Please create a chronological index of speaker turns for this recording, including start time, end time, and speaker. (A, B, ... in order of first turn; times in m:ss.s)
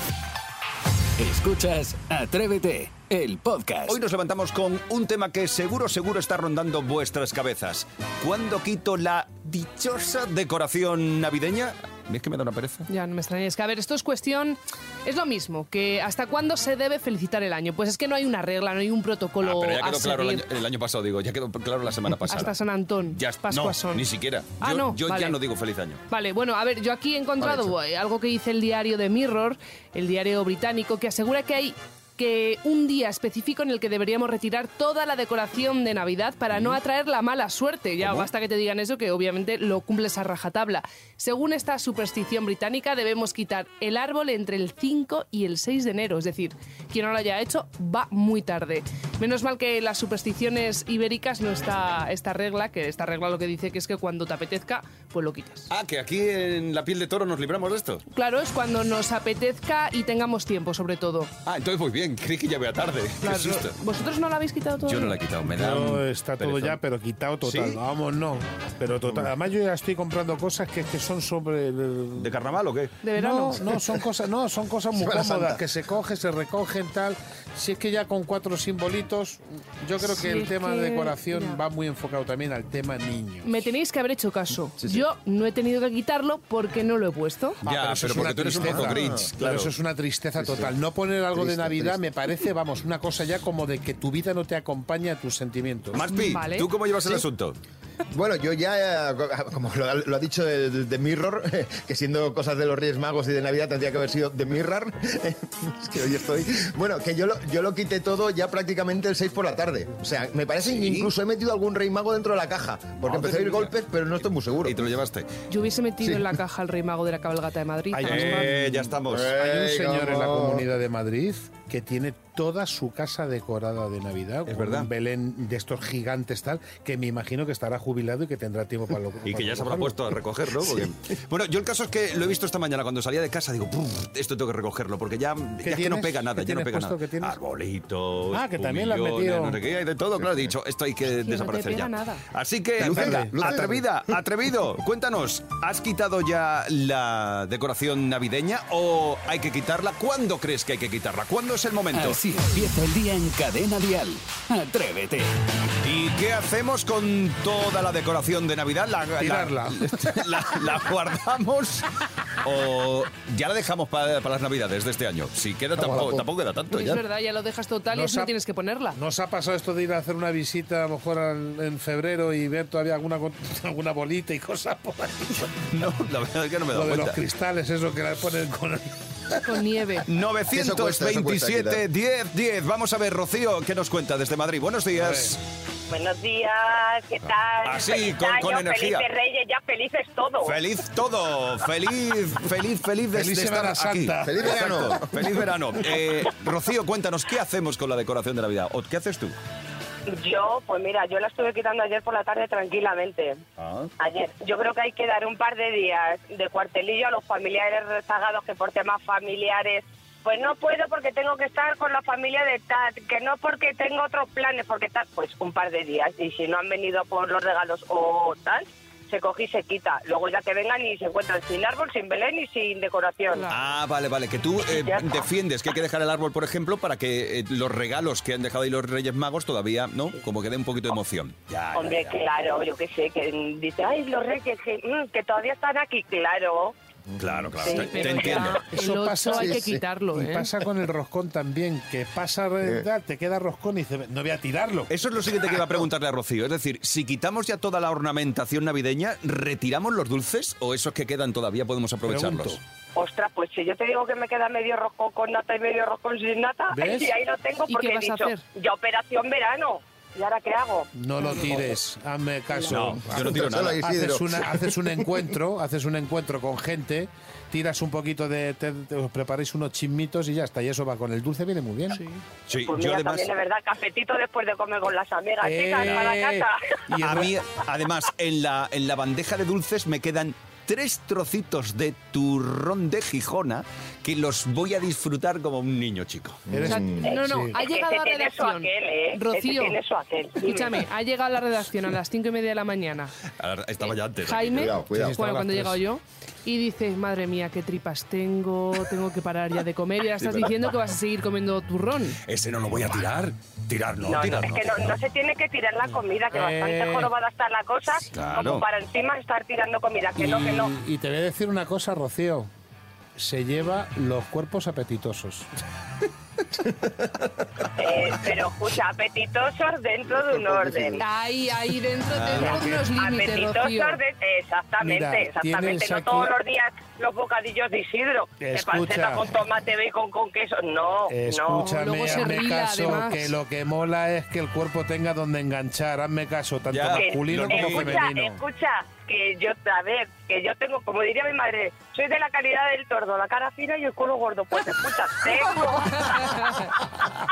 0:01.2-0:04.0 A
0:03.9-0:12.8 B
0:12.9-0:20.4 C
0:19.4-0:22.5 B
0:22.3-0:24.0 C
0:23.1-0:26.0 B
0:24.6-0:25.4 C
0:26.1-0:55.7 C
0:55.7-0:58.0 B
0:58.1-1:01.3 C
1:01.4-1:03.8 B
1:03.2-1:05.2 C
1:04.8-1:06.8 B
1:05.4-1:12.4 D
1:07.4-1:07.8 B
1:12.2-1:12.9 B
1:13.0-1:13.6 C
1:13.1-1:23.6 D
1:14.9-1:15.6 E
1:20.0-1:21.6 C
1:23.4-1:27.6 C
1:27.6-1:29.7 B
1:27.6-1:36.0 D
1:28.2-1:29.3 E
1:30.4-1:30.7 E
1:31.3-1:32.0 E
1:35.9-1:37.6 B
1:36.1-1:36.7 C
1:38.1-1:54.8 E
1:50.6-1:51.1 B
1:53.0-1:53.7 B
1:54.6-1:55.3 B
1:55.5-1:58.4 C
1:57.9-2:10.1 D
1:58.0-1:59.3 B
1:59.1-2:00.6 E
2:04.5-2:04.9 B
2:09.2-2:32.2 B
2:15.6-2:17.4 D
2:18.3-2:19.6 D
2:21.2-2:22.2 C
2:22.8-2:23.6 D
2:22.8-2:23.8 E
2:31.9-2:35.3 A
2:35.8-2:41.9 B
2:39.2-2:40.4 D
2:42.4-2:47.0 B
2:45.8-2:46.2 D
2:46.7-2:49.0 C
2:47.9-2:48.3 D
2:48.9-2:55.6 D
2:55.7-2:57.2 B
2:56.7-2:59.5 D
2:59.4-3:00.0 C
3:00.0-3:05.4 B
3:00.5-3:01.8 E
3:04.9-3:05.4 D
3:05.9-3:10.6 F
3:07.6-3:09.1 B
3:10.4-3:19.3 B
3:13.1-3:14.9 D
3:14.2-3:15.4 E
3:20.1-3:23.4 F
3:23.6-3:23.9 B
3:24.0-3:43.5 F
3:43.3-3:43.6 C
3:43.5-3:52.2 B
3:44.7-3:45.2 F
3:51.7-3:56.7 F
3:57.1-3:57.6 E
3:57.2-3:58.6 B
3:57.6-4:00.5 C
3:58.7-4:04.9 D
3:59.3-3:59.8 E
4:04.9-4:12.6 B
4:12.0-4:12.6 D
4:13.0-4:20.9 F
4:16.7-4:17.1 D
4:17.7-4:18.4 C
4:20.9-4:32.0 D
4:22.7-4:23.8 B
4:22.8-4:24.7 E
4:32.5-4:33.3 B
4:32.6-4:36.6 F
4:35.4-4:37.3 D
4:37.0-4:46.4 B
4:46.5-4:47.1 E
4:46.5-4:47.6 D
4:46.7-4:49.8 C
4:47.0-4:50.8 F
4:50.4-4:53.1 C
4:53.3-4:54.8 B
4:54.2-5:02.2 C
4:54.5-4:55.2 E
4:54.9-4:55.8 D
5:00.2-5:00.5 B
5:02.2-5:04.9 B
5:04.0-5:10.7 F
5:06.3-5:07.1 D
5:08.1-5:08.6 B
5:10.1-5:12.5 D
5:13.2-5:15.5 D
5:17.8-5:21.0 F
5:20.2-5:21.0 E
5:21.0-5:24.0 C
5:22.1-5:22.7 B
5:22.3-5:22.8 D
5:22.9-5:32.3 F
5:24.8-5:26.3 D
5:28.4-5:29.2 D
5:31.1-5:38.4 D
5:31.5-5:33.3 C
5:36.7-5:38.1 B
5:36.9-5:46.6 F
5:46.2-5:46.6 C